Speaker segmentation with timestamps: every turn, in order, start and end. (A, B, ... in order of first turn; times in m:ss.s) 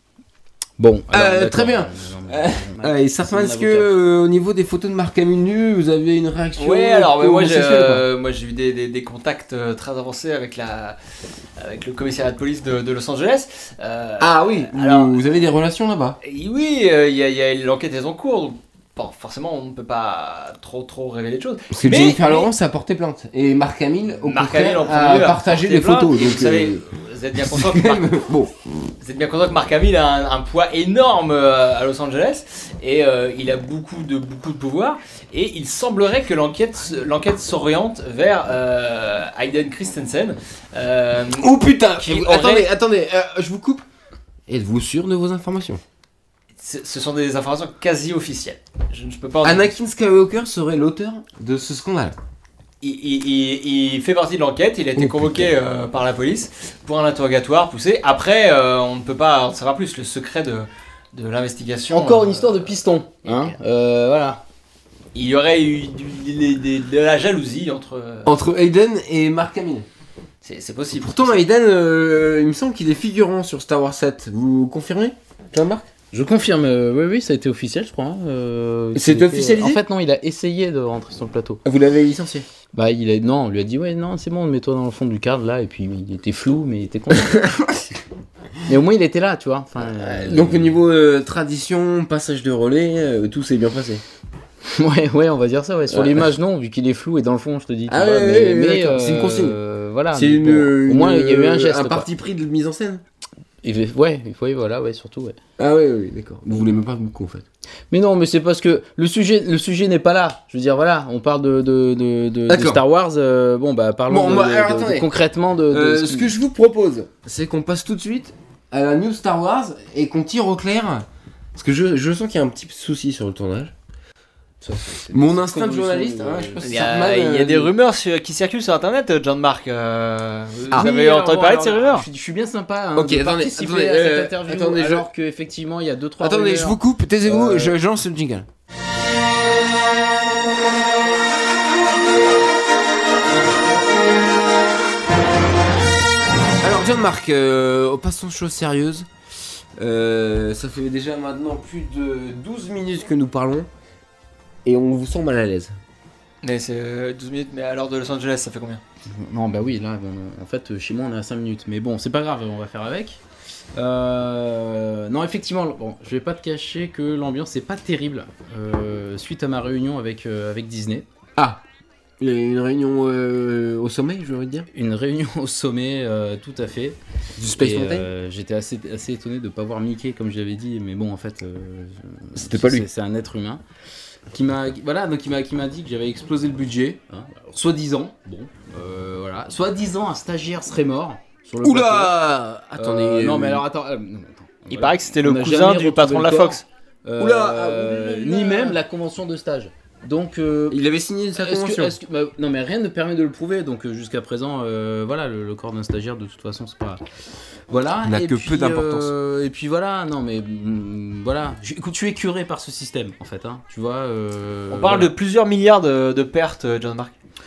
0:00.8-0:03.9 A
0:01.1-0:08.0 B
0:06.6-0:11.0 C
0:11.6-0:15.2 C
0:14.2-0:16.2 B
0:16.2-0:22.5 C
0:21.7-0:26.8 B
0:24.2-0:28.1 C
0:27.3-0:28.9 B
0:29.0-0:42.7 C
0:41.4-0:43.8 B
0:44.5-0:45.8 B
0:46.6-0:49.7 C
0:49.4-0:52.2 B
0:52.8-1:02.7 C
0:55.0-0:55.5 B
1:01.9-1:04.4 A
1:05.1-1:08.3 C
1:08.2-1:09.9 B
1:10.4-1:11.4 C
1:11.0-1:15.8 B
1:16.1-1:21.6 A
1:18.9-1:19.8 B
1:21.6-1:22.5 B
1:22.7-1:27.4 A
1:27.1-1:27.8 B
1:28.6-1:30.7 A
1:29.8-1:34.0 B
1:34.7-1:42.1 A
1:35.9-1:36.3 B
1:37.9-1:39.6 B
1:40.1-1:43.0 B
1:43.6-1:45.4 A
1:45.6-1:47.4 B
1:47.9-1:56.3 A
1:52.5-1:52.8 B
1:54.1-1:55.1 B
1:55.7-2:03.7 B
2:04.6-2:06.6 A
2:05.1-2:07.7 B
2:06.6-2:12.0 C
2:10.7-2:17.7 A
2:13.0-2:15.1 B
2:16.2-2:18.5 B
2:26.6-2:29.1 B
2:29.8-2:33.7 B
2:34.6-2:35.7 B
2:36.4-2:38.8 C
2:39.1-2:43.2 A
2:43.7-2:51.0 A
2:51.4-2:51.6 B
2:52.2-2:54.7 B
2:54.7-3:03.6 A
2:57.4-2:58.1 B
3:02.4-3:02.9 B
3:04.3-3:12.1 A
3:11.6-3:13.6 B
3:12.8-3:20.8 A
3:14.7-3:16.6 C
3:17.2-3:18.8 B
3:20.7-3:22.0 B
3:21.4-3:27.0 A
3:27.7-3:35.1 A
3:28.0-3:29.1 B
3:34.7-3:37.1 C